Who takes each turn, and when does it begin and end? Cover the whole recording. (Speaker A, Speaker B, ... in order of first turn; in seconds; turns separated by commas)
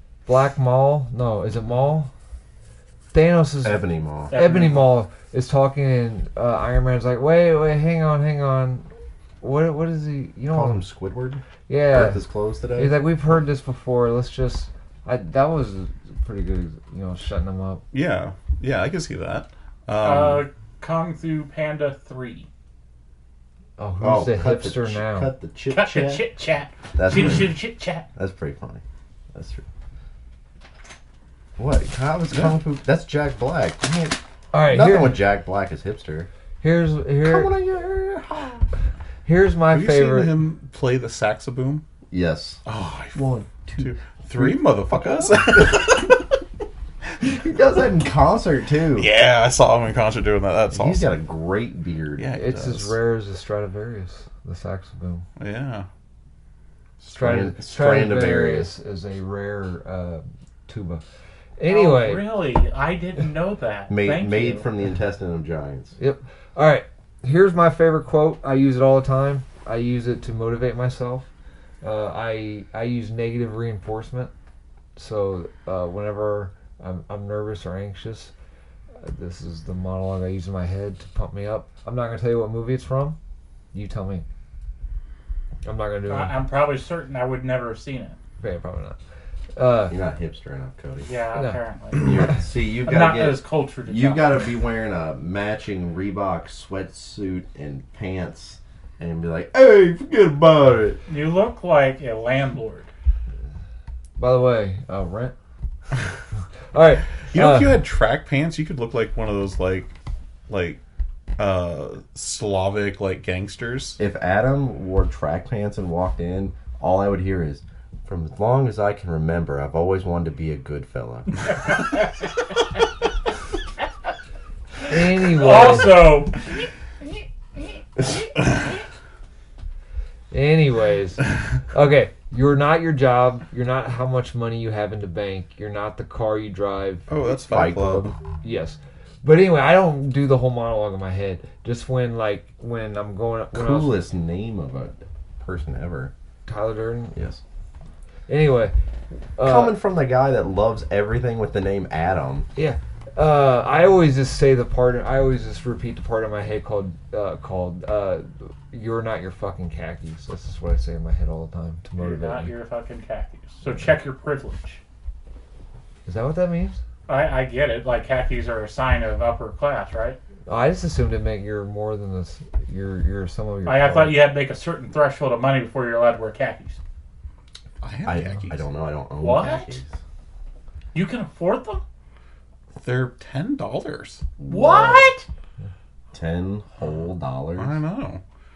Speaker A: 0.3-2.1, Speaker A: 3.1-8.9, Speaker B: 3.6-4.3, Speaker C: 4.3-4.9, Speaker A: 9.4-10.8, Speaker B: 10.5-12.9, Speaker A: 11.7-12.2, Speaker A: 12.8-17.8, Speaker D: 17.9-20.4, Speaker C: 20.0-22.5, Speaker A: 23.8-25.3, Speaker B: 24.0-26.2, Speaker C: 25.7-28.1, Speaker B: 27.0-27.5, Speaker B: 28.2-28.8, Speaker B: 29.3-29.6, Speaker B: 31.6-36.3, Speaker A: 34.5-35.2, Speaker A: 36.6-37.5, Speaker B: 37.2-38.7, Speaker A: 39.2-40.4, Speaker D: 39.7-41.8, Speaker B: 42.1-42.6, Speaker D: 42.7-46.3, Speaker B: 43.1-45.8, Speaker B: 47.2-49.1, Speaker D: 49.0-51.1, Speaker B: 50.7-52.4, Speaker D: 52.2-53.0, Speaker A: 52.3-55.3, Speaker D: 55.4-55.9, Speaker B: 57.0-58.7, Speaker A: 57.1-61.0, Speaker A: 61.6-62.2, Speaker C: 61.7-64.7, Speaker B: 63.9-66.0, Speaker A: 66.0-71.3, Speaker A: 71.8-74.3, Speaker A: 75.0-78.3, Speaker A: 79.0-83.2, Speaker A: 83.7-84.2, Speaker A: 85.7-86.3, Speaker C: 86.1-88.2, Speaker A: 88.4-89.0, Speaker A: 89.6-90.0, Speaker B: 89.9-91.1, Speaker C: 91.0-94.3, Speaker B: 92.0-101.0, Speaker C: 101.1-102.9, Speaker A: 104.2-105.3, Speaker A: 106.7-107.8, Speaker D: 107.3-109.9, Speaker D: 110.5-110.8, Speaker D: 111.4-114.0, Speaker B: 114.0-121.5, Speaker C: 121.7-122.0, Speaker A: 124.9-126.1, Speaker C: 125.2-126.5, Speaker A: 130.3-137.1, Speaker D: 137.1-138.1, Speaker B: 137.3-138.2, Speaker A: 138.4-144.0, Speaker B: 143.5-146.1, Speaker A: 146.5-147.2, Speaker B: 147.1-147.4, Speaker A: 148.3-148.8, Speaker A: 149.4-149.8, Speaker B: 149.4-152.5, Speaker A: 152.6-162.5, Speaker C: 162.0-164.8, Speaker A: 166.1-166.8, Speaker C: 167.1-170.2, Speaker A: 170.5-174.2, Speaker C: 173.7-176.8, Speaker D: 177.8-178.6, Speaker B: 178.1-179.9, Speaker C: 179.2-179.8, Speaker C: 180.9-181.8, Speaker D: 182.8-184.3, Speaker B: 184.4-185.1, Speaker C: 184.5-185.3, Speaker B: 186.1-187.8, Speaker D: 187.6-188.2